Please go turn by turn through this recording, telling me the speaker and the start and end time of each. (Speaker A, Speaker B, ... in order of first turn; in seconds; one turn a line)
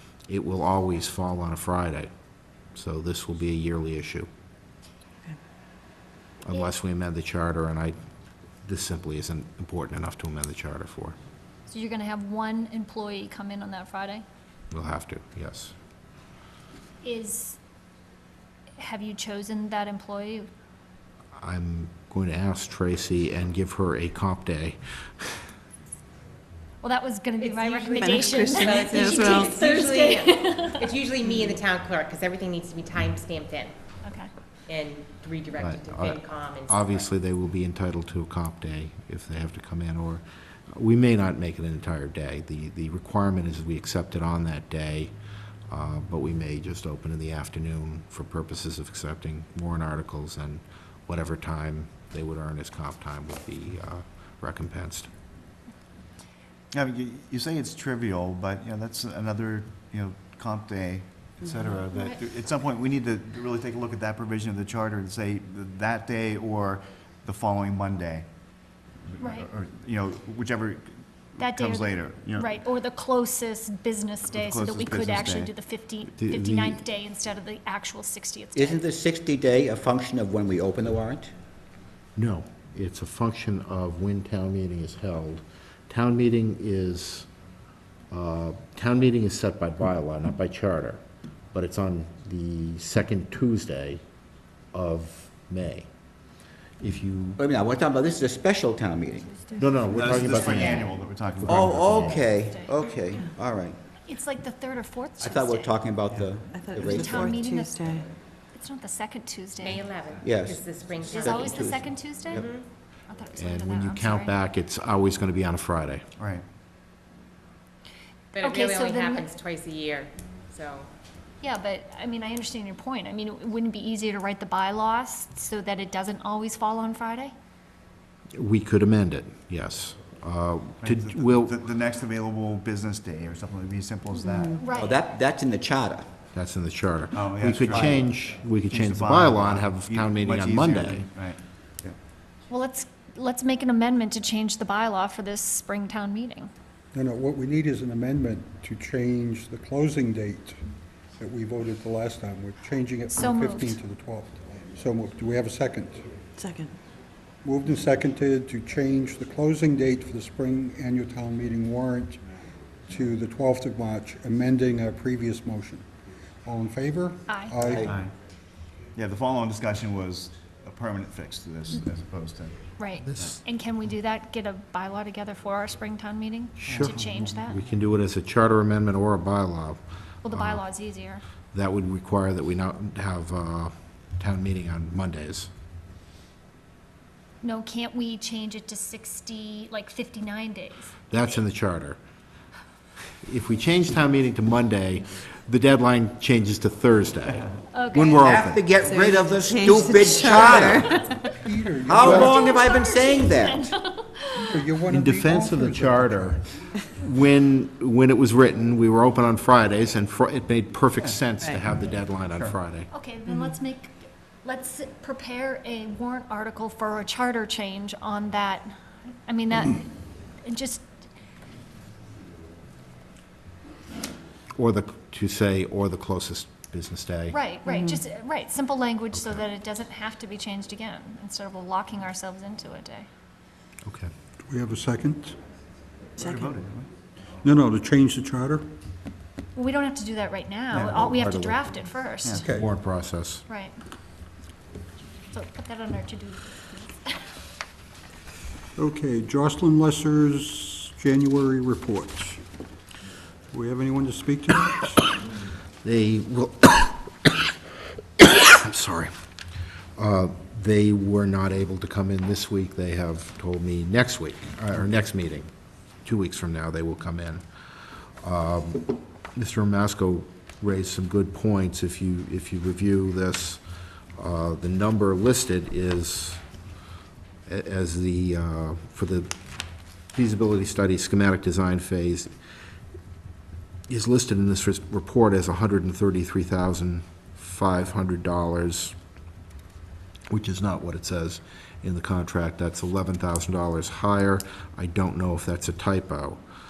Speaker A: 0.2-2.1
Speaker A: 2.7-4.3
Speaker A: 6.4-7.9
Speaker A: 8.6-11.2
Speaker B: 11.7-14.2
Speaker A: 14.7-15.7
Speaker B: 17.0-17.6
Speaker B: 18.8-20.5
Speaker A: 21.4-24.8
Speaker B: 26.8-30.8
Speaker C: 27.3-30.0
Speaker D: 27.4-33.7
Speaker B: 34.0-34.3
Speaker D: 34.7-37.0
Speaker A: 35.6-45.1
Speaker A: 45.7-55.1
Speaker E: 56.7-72.5
Speaker B: 71.6-78.8
Speaker C: 72.5-73.0
Speaker C: 74.1-74.6
Speaker E: 74.3-75.5
Speaker C: 75.5-75.9
Speaker A: 76.2-76.8
Speaker F: 78.5-81.3
Speaker A: 82.2-87.3
Speaker A: 88.1-91.0
Speaker A: 91.5-94.0
Speaker A: 94.7-95.9
Speaker A: 96.8-97.4
Speaker F: 97.4-99.3
Speaker A: 99.6-102.2
Speaker E: 99.9-102.1
Speaker B: 100.4-100.9
Speaker F: 101.5-103.8
Speaker B: 102.3-102.7
Speaker B: 104.1-105.7
Speaker F: 105.2-107.4
Speaker C: 106.5-108.1
Speaker B: 106.9-108.0
Speaker B: 108.5-109.8
Speaker D: 109.6-112.7
Speaker F: 110.2-112.5
Speaker B: 111.1-112.4
Speaker B: 113.1-114.3
Speaker A: 113.3-116.0
Speaker E: 116.2-116.4
Speaker D: 118.3-120.9
Speaker B: 118.4-119.2
Speaker B: 121.4-127.3
Speaker A: 128.3-131.6
Speaker E: 130.8-134.6
Speaker B: 134.6-134.9
Speaker F: 134.7-136.1
Speaker A: 136.3-141.1
Speaker E: 137.1-138.0
Speaker F: 137.7-138.0
Speaker E: 138.7-141.9
Speaker B: 142.5-146.5
Speaker G: 146.9-150.6
Speaker G: 151.2-156.2
Speaker B: 153.1-153.8
Speaker C: 156.4-156.7
Speaker G: 157.4-162.2
Speaker G: 162.9-165.9
Speaker G: 166.4-167.8
Speaker B: 167.3-167.6
Speaker F: 167.6-167.9
Speaker E: 167.8-168.1
Speaker E: 168.9-173.3
Speaker B: 172.9-177.6
Speaker A: 173.1-173.4
Speaker C: 173.9-175.3
Speaker A: 176.6-180.7
Speaker B: 180.2-181.2
Speaker A: 181.5-185.5
Speaker B: 187.4-190.9
Speaker C: 187.7-188.1
Speaker A: 191.1-192.0
Speaker A: 193.2-198.6
Speaker B: 197.7-198.2
Speaker F: 197.9-201.1
Speaker C: 198.9-201.1
Speaker G: 201.4-202.4
Speaker F: 201.8-203.8
Speaker B: 202.2-204.6
Speaker G: 204.4-206.3
Speaker A: 204.9-212.9
Speaker B: 212.9-218.7
Speaker C: 213.3-213.6
Speaker B: 219.3-220.8
Speaker A: 224.6-227.4
Speaker B: 227.3-233.1
Speaker C: 227.6-228.5
Speaker A: 229.1-229.5
Speaker A: 233.8-234.1
Speaker G: 234.5-235.3
Speaker C: 236.2-236.6
Speaker E: 236.2-236.9
Speaker G: 237.4-238.7
Speaker B: 239.6-242.4
Speaker E: 240.7-241.2
Speaker A: 240.9-241.6
Speaker A: 242.5-243.4
Speaker B: 243.5-243.7
Speaker B: 245.3-247.1
Speaker G: 248.8-252.4
Speaker G: 253.5-255.0
Speaker A: 255.8-257.5
Speaker A: 258.2-259.1
Speaker A: 260.0-265.5
Speaker A: 266.0-267.4
Speaker A: 268.2-273.6
Speaker A: 274.2-276.4
Speaker A: 277.5-279.3
Speaker A: 280.1-282.3
Speaker A: 283.9-288.9
Speaker A: 290.3-296.4